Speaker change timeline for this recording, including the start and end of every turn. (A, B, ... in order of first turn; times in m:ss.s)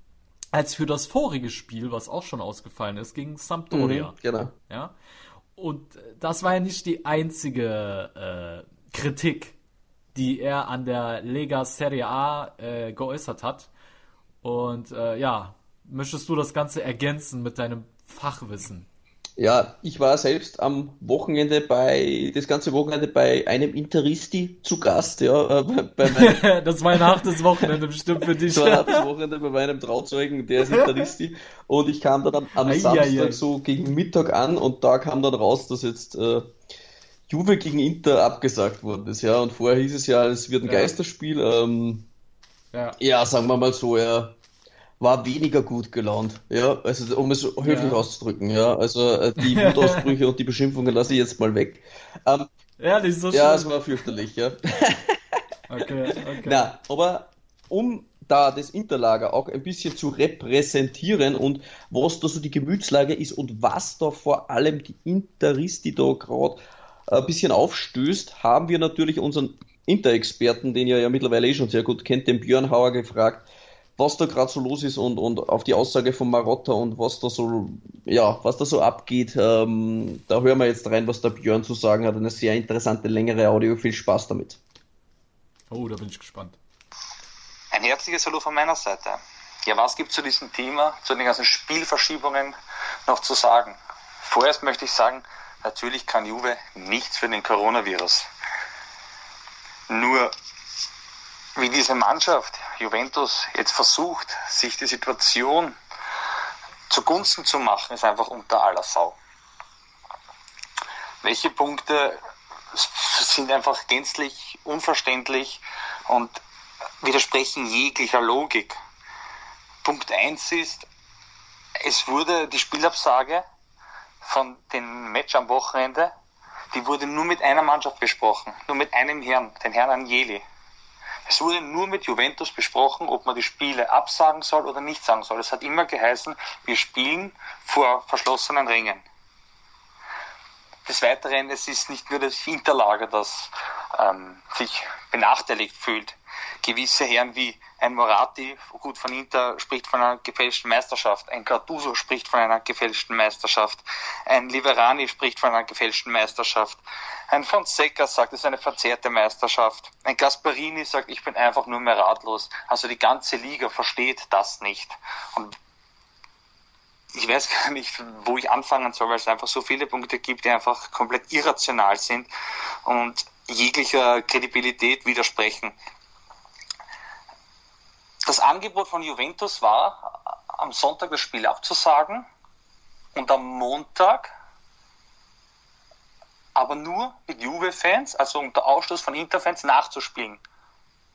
0:00.5-0:04.2 A
0:03.7-0:04.5 B
0:04.7-0:05.0 A
0:05.6-0:09.6 A
0:10.2-0:13.7 A
0:14.4-0:18.9 A
0:19.4-0:27.7 B
0:26.0-0:29.1 A
0:28.2-0:36.5 B
0:30.6-0:31.0 A
0:32.6-0:33.4 A
0:37.3-0:42.1 B
0:40.6-0:40.9 A
0:42.7-0:43.0 A
0:43.0-0:44.4 B
0:45.0-0:52.5 B
0:47.6-0:48.0 A
0:49.4-0:50.2 A
0:52.8-0:53.9 A
0:53.3-0:55.2 B
0:55.7-0:56.7 A
0:56.4-1:24.6 B
1:25.7-1:26.6 A
1:27.7-1:38.3 C
1:39.9-1:40.3 C
1:41.6-1:45.8 C
1:46.9-1:49.2 C
1:51.2-1:52.2 C
1:52.7-1:56.4 C
1:57.0-1:58.8 C
1:59.8-2:00.9 C
2:01.8-2:03.4 C
2:04.2-2:06.1 C
2:06.7-2:10.4 C
2:11.3-2:19.0 C
2:20.8-2:45.6 C
2:47.2-2:52.3 C
2:52.8-2:55.8 C
2:58.3-3:02.3 C
3:03.2-3:04.3 C
3:06.6-3:10.4 C